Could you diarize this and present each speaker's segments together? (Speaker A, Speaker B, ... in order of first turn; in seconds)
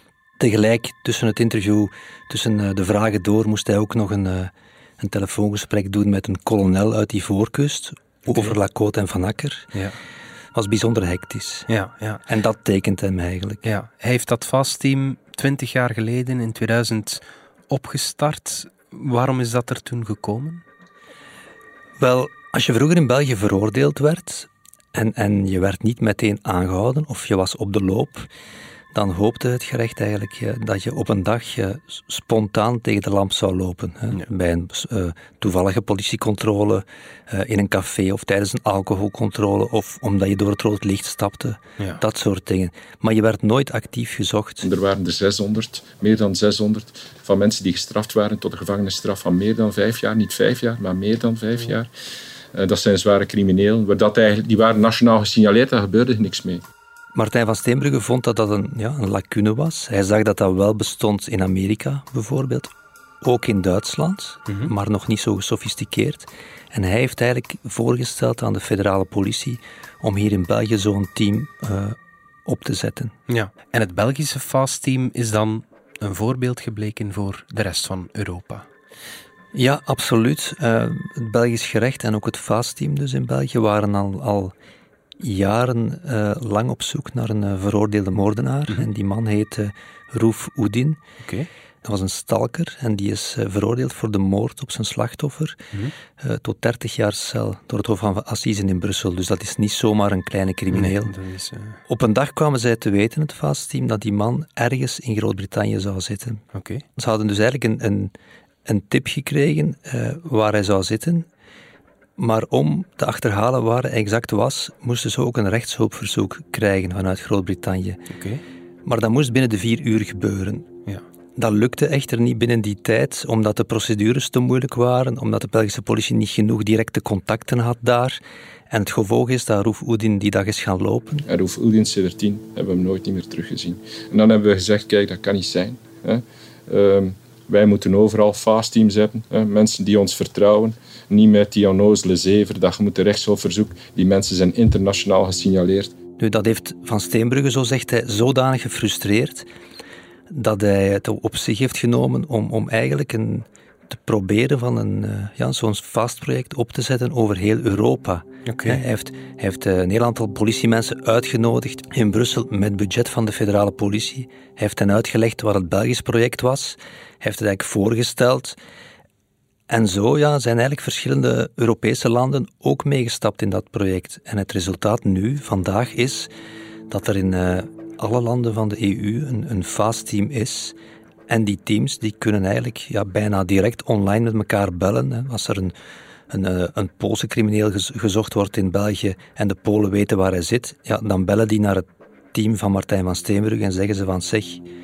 Speaker A: 0.4-9.7, 10.5-11.7, 12.3-13.6, 22.0-28.3, 28.9-44.7, 57.1-73.2, 79.5-84.5, 85.2-91.0, 91.8-95.6, 96.2-101.1, 101.9-106.4, 107.0-108.1, 108.7-111.3, 112.2-118.0, 118.8-120.7, 121.4-131.3, 146.2-149.5, 150.3-168.6, 169.7-176.3, 176.9-180.8, 181.3-185.7, 186.3-194.7
Speaker B: 8.3-8.6, 11.7-12.2, 13.6-20.6, 73.3-78.7, 91.2-91.5, 100.7-101.8, 106.5-106.8, 118.1-118.4, 158.5-158.8
Speaker C: 44.6-51.9, 52.5-56.6, 131.3-145.9